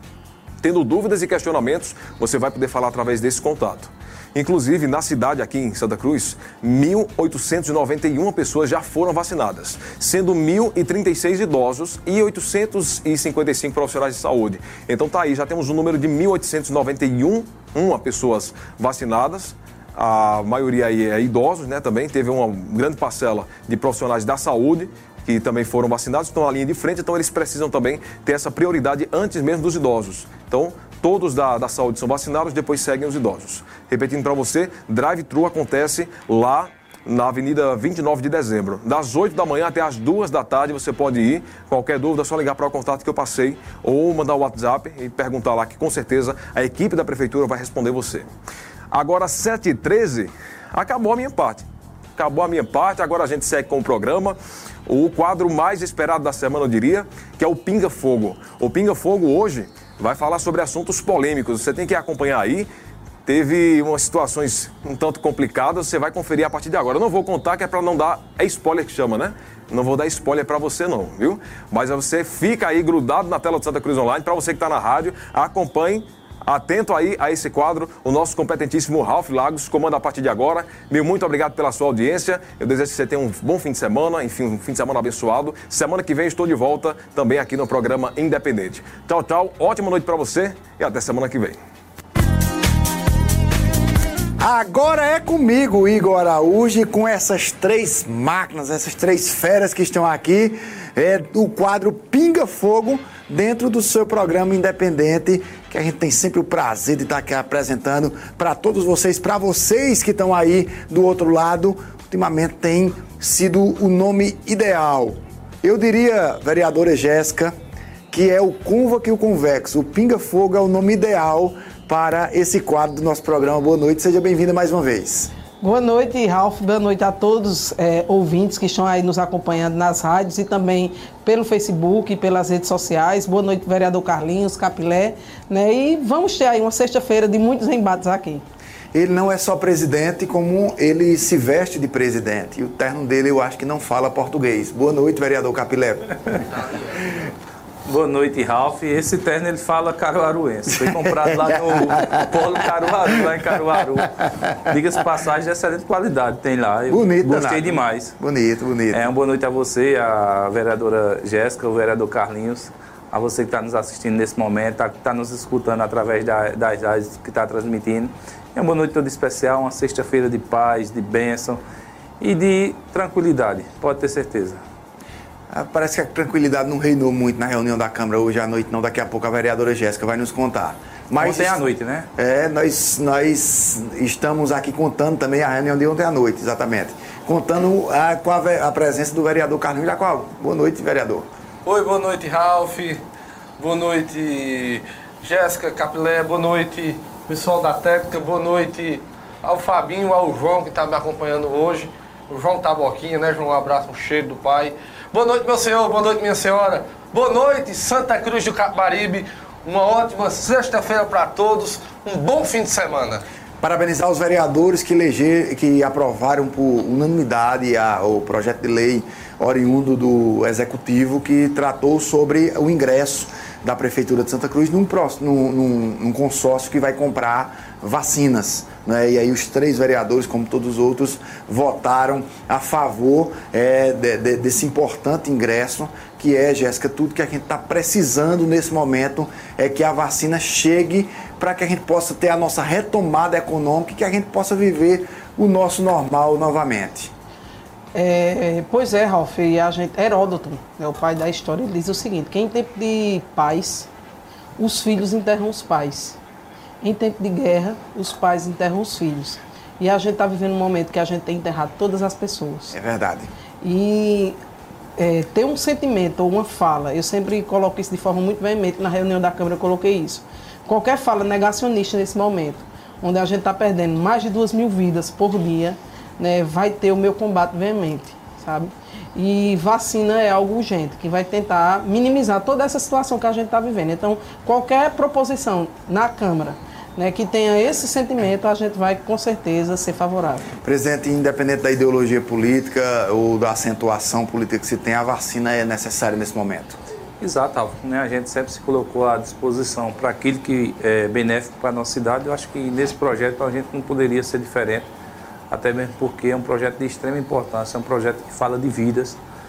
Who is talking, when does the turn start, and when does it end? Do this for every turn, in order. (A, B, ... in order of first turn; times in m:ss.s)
0:00.6-0:48.3 A
0:48.9-0:51.6 A
0:52.2-1:02.7 A
1:03.2-1:31.6 A
1:34.4-1:57.5 B
1:58.1-2:05.3 B
2:05.6-2:18.4 C
2:18.9-2:26.2 B
2:27.9-2:38.1 D
2:30.7-2:32.4 B
2:36.9-2:39.1 B
2:38.9-2:51.6 D
2:52.2-2:54.6 D
2:55.5-3:01.6 B
3:01.2-3:02.1 D
3:02.2-3:11.3 B
3:11.6-3:13.0 E
3:13.6-3:33.2 E
3:33.6-4:07.1 B
4:07.9-4:13.9 C
4:14.6-4:16.2 C
4:16.8-4:22.7 C
4:22.7-4:23.3 B
4:23.6-4:24.4 C
4:25.0-4:50.5 C
4:50.6-4:56.8 B
4:57.2-5:04.8 D
5:05.5-5:09.2 D